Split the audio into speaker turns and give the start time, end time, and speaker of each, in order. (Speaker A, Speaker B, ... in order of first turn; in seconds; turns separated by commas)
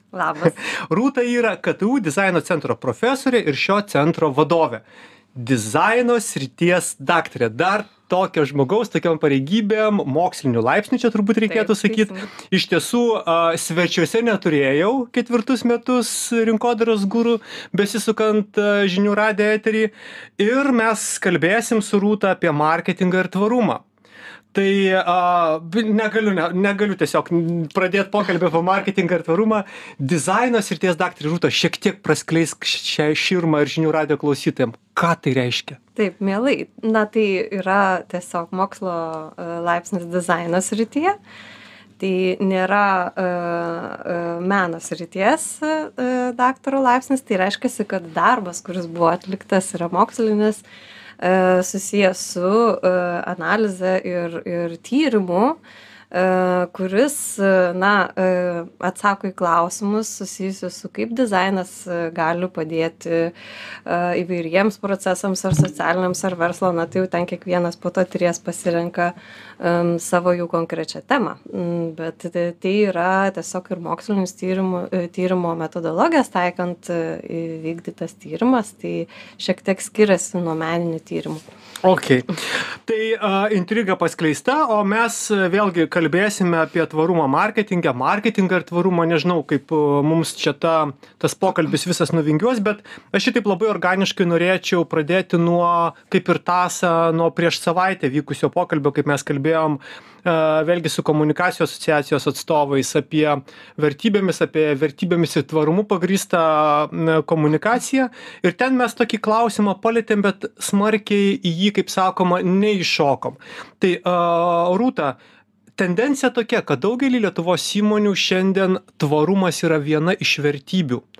Speaker A: 0.1-0.6, Speaker B: 0.9-4.8, Speaker B: 5.3-23.8, Speaker A: 11.5-12.3, Speaker B: 24.5-35.8, Speaker A: 36.0-41.1, Speaker A: 42.0-50.6, Speaker A: 51.2-55.6, Speaker A: 56.1-63.3, Speaker A: 63.9-81.4, Speaker B: 81.8-82.3, Speaker B: 82.9-115.2, Speaker B: 115.8-121.0